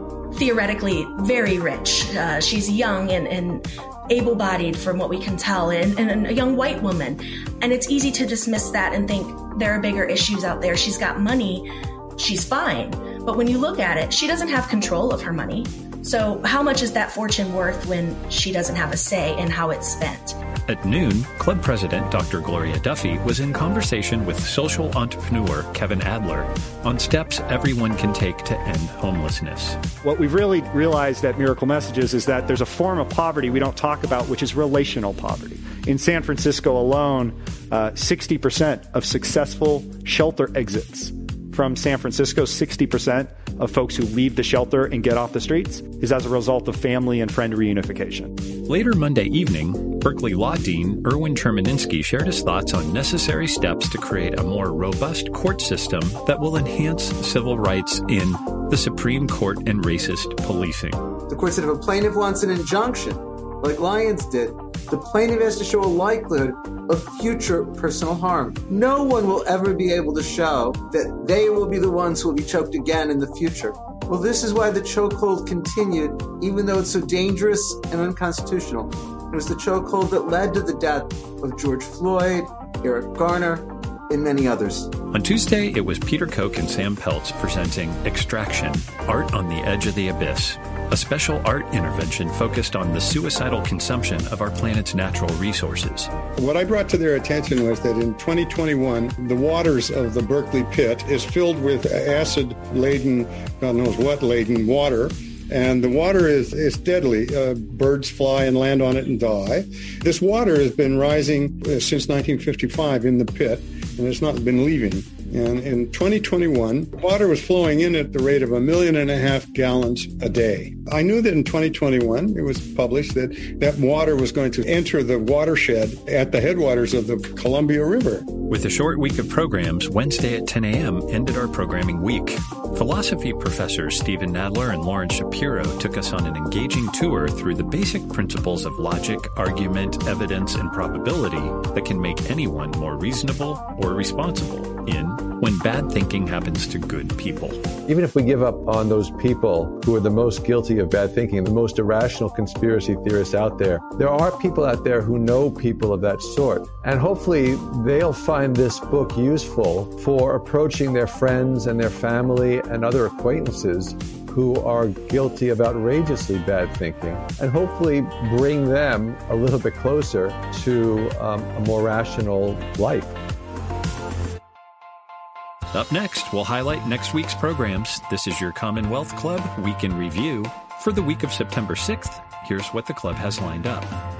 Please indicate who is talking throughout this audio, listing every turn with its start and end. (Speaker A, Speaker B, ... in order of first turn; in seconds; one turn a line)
Speaker A: 0.3-20.4
Speaker B: 20.7-29.8
Speaker C: 30.0-48.3
Speaker B: 48.7-61.0
Speaker D: 61.3-84.9
Speaker B: 85.1-96.1
Speaker E: 96.4-128.3
Speaker B: 128.5-147.6
Speaker F: 147.9-173.2
Speaker B: 175.7-183.9